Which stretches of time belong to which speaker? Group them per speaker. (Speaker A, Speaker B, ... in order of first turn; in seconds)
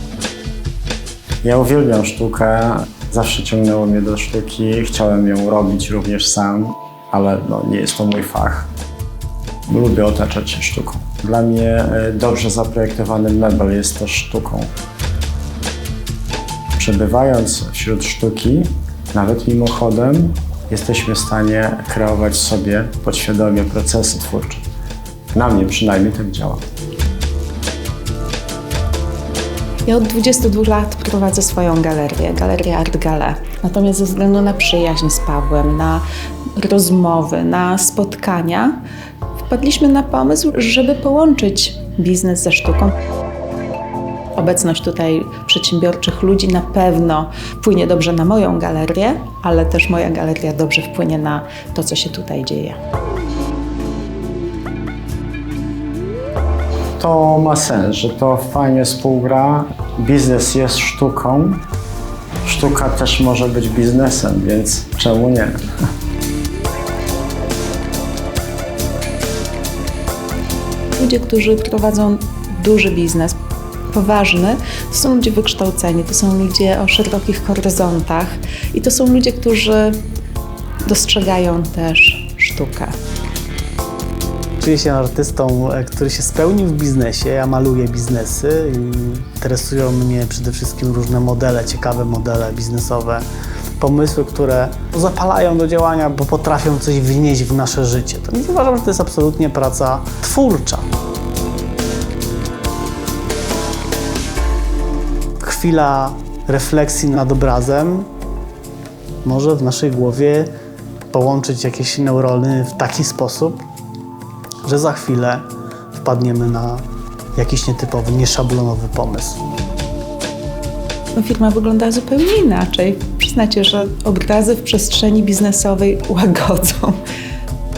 Speaker A: 1.4-8.7, 9.7-14.7, 16.8-24.6, 25.3-26.6, 57.0-61.6, 62.4-65.6
Speaker B: 29.9-36.0, 36.5-38.8, 39.5-42.9, 44.3-52.8, 71.0-73.4, 73.9-80.0, 80.8-82.9, 121.1-127.0
Speaker C: 84.6-93.2, 93.8-100.9, 105.4-108.1, 109.2-110.5, 111.1-113.7, 114.6-116.8, 117.3-119.4